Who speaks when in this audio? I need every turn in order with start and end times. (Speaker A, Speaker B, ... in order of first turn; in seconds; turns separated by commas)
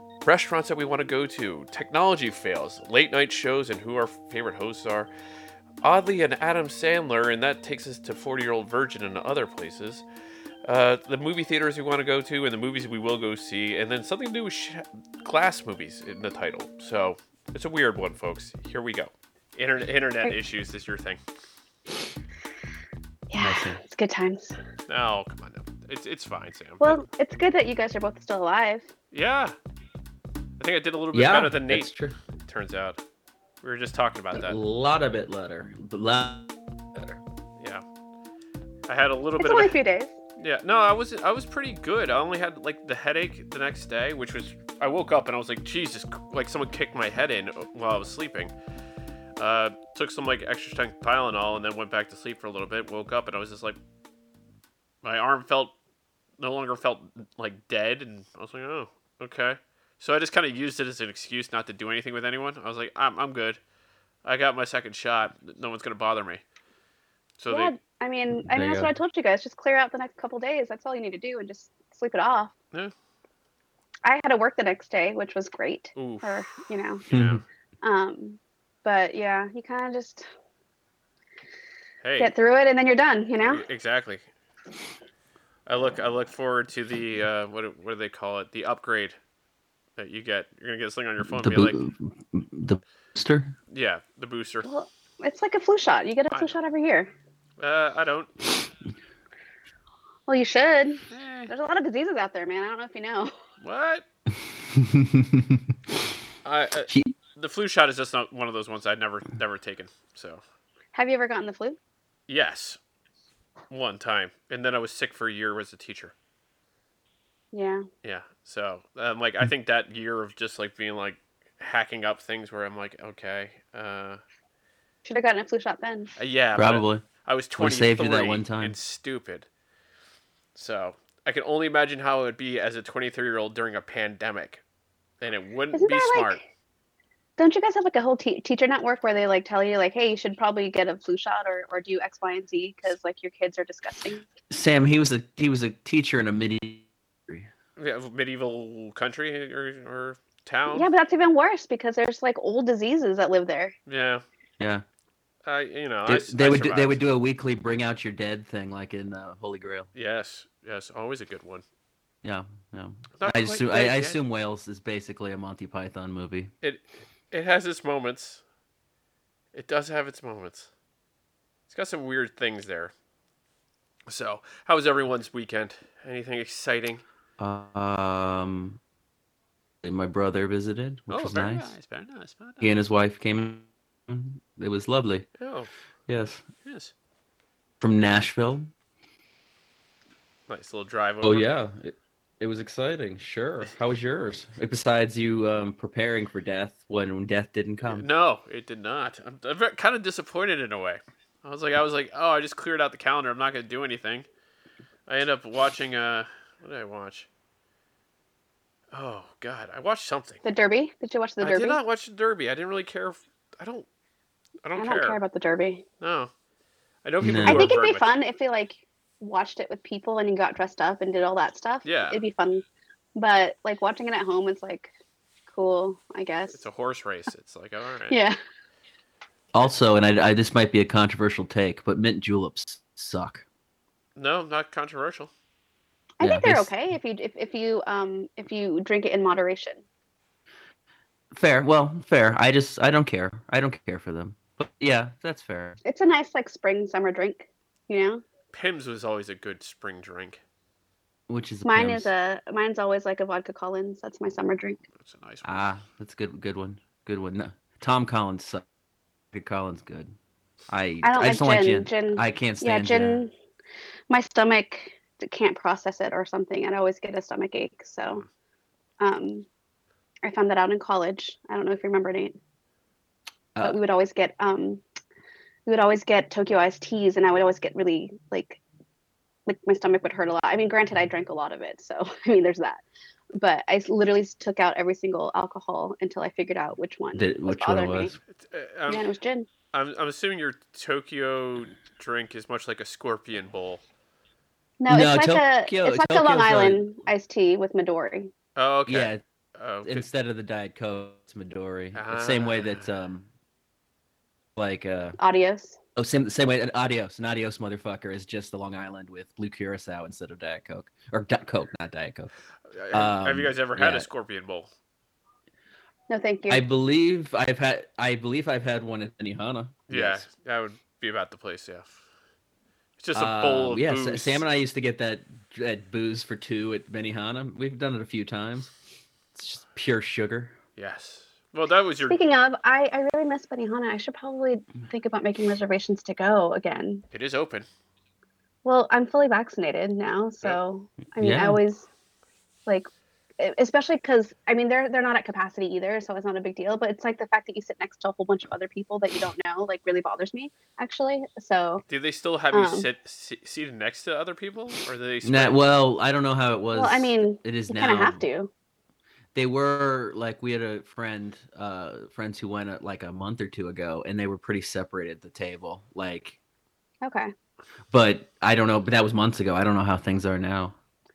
Speaker A: 0.2-5.1, Speaker A: 5.8-10.0, Speaker A: 10.6-21.2, Speaker B: 23.3-24.6, Speaker C: 23.4-23.8, Speaker A: 24.9-27.0, Speaker B: 26.8-28.9, Speaker A: 29.1-29.6, Speaker A: 30.6-31.9, Speaker C: 31.1-32.2, Speaker A: 32.5-33.0, Speaker A: 33.6-34.6, Speaker C: 34.3-37.2, Speaker A: 37.6-37.8, Speaker A: 38.9-39.8, Speaker B: 39.4-40.2, Speaker A: 40.4-48.5, Speaker A: 49.4-53.8, Speaker A: 55.0-55.7, Speaker A: 56.4-63.6, Speaker A: 64.2-66.4, Speaker A: 67.4-67.7, Speaker B: 67.5-72.5, Speaker C: 68.3-68.9, Speaker B: 74.0-77.0, Speaker A: 76.0-76.4, Speaker A: 77.1-77.4, Speaker C: 77.1-77.4, Speaker B: 77.8-80.3, Speaker A: 82.0-82.3, Speaker B: 82.2-83.6, Speaker A: 83.4-84.3, Speaker A: 85.7-89.2, Speaker A: 90.0-91.8, Speaker C: 91.2-93.5, Speaker A: 93.7-94.7, Speaker B: 94.6-97.1, Speaker A: 96.3-96.6, Speaker A: 97.6-98.3, Speaker B: 100.3-103.3, Speaker A: 101.1-101.5, Speaker A: 103.6-104.0, Speaker C: 104.5-105.7, Speaker A: 106.4-110.4, Speaker C: 106.9-107.1, Speaker B: 110.9-111.8, Speaker A: 112.3-112.8, Speaker A: 113.7-116.1, Speaker B: 117.5-117.9, Speaker A: 118.0-124.2, Speaker B: 125.1-126.1, Speaker A: 126.2-129.5, Speaker C: 126.5-127.1, Speaker C: 127.6-128.8, Speaker A: 130.6-134.6, Speaker A: 135.2-136.4, Speaker B: 135.7-136.4, Speaker B: 137.4-144.3, Speaker C: 144.5-147.5, Speaker A: 147.8-150.9, Speaker B: 150.7-153.7, Speaker A: 153.9-154.2, Speaker A: 155.4-157.0, Speaker C: 156.1-159.9, Speaker A: 159.9-161.7, Speaker C: 162.2-166.5, Speaker A: 163.2-164.2, Speaker A: 166.6-168.4, Speaker A: 169.5-170.7, Speaker A: 171.7-172.9, Speaker A: 174.1-177.0, Speaker C: 177.4-178.8, Speaker C: 179.8-181.8, Speaker A: 181.1-182.8, Speaker C: 182.6-185.3, Speaker A: 185.4-185.7, Speaker C: 186.1-186.4, Speaker A: 186.6-186.9, Speaker C: 187.8-188.7, Speaker A: 190.5-191.5, Speaker C: 191.2-198.1, Speaker A: 197.9-204.3, Speaker A: 205.1-207.3, Speaker A: 208.9-210.4, Speaker B: 210.4-211.8, Speaker A: 211.4-213.9, Speaker A: 214.6-215.2, Speaker B: 214.8-215.8, Speaker A: 216.0-216.3, Speaker A: 217.0-218.2, Speaker C: 217.2-217.7, Speaker B: 217.4-224.9, Speaker A: 221.8-222.2, Speaker B: 225.5-226.7, Speaker A: 226.5-228.2, Speaker B: 228.1-228.4, Speaker C: 229.5-233.4, Speaker A: 234.2-235.3, Speaker B: 236.2-239.8, Speaker C: 236.2-236.7, Speaker C: 241.3-245.8, Speaker B: 245.8-248.2, Speaker A: 248.5-250.4, Speaker C: 251.3-252.1, Speaker B: 251.7-254.8, Speaker A: 255.0-255.7, Speaker C: 255.4-258.6, Speaker C: 259.3-260.1, Speaker C: 260.7-263.2, Speaker B: 261.0-263.3, Speaker B: 264.1-268.2, Speaker B: 269.0-269.5, Speaker B: 270.2-272.4, Speaker B: 273.6-274.8, Speaker B: 275.7-278.6, Speaker B: 279.5-282.8, Speaker B: 283.4-288.1, Speaker C: 287.1-288.1, Speaker A: 288.4-289.1, Speaker B: 288.9-289.5, Speaker A: 289.7-293.8, Speaker B: 294.8-298.3, Speaker C: 294.9-296.9, Speaker A: 298.6-300.1, Speaker C: 298.9-299.2, Speaker C: 299.8-303.3, Speaker A: 301.9-302.9, Speaker C: 304.6-305.2, Speaker B: 305.2-305.8, Speaker C: 306.0-312.3, Speaker A: 312.7-314.7, Speaker C: 312.9-314.1, Speaker B: 316.1-316.6, Speaker C: 316.5-320.3, Speaker A: 319.9-321.9, Speaker A: 323.0-324.4, Speaker C: 323.1-328.7, Speaker C: 329.4-330.6, Speaker A: 330.8-332.2, Speaker B: 332.1-337.0, Speaker A: 337.1-337.7, Speaker B: 338.6-341.9, Speaker C: 341.2-341.6, Speaker B: 343.4-351.8, Speaker A: 351.9-355.6, Speaker B: 352.5-352.9, Speaker C: 355.2-358.2, Speaker B: 356.7-358.5, Speaker C: 359.4-366.4, Speaker B: 367.0-367.3, Speaker C: 367.9-370.8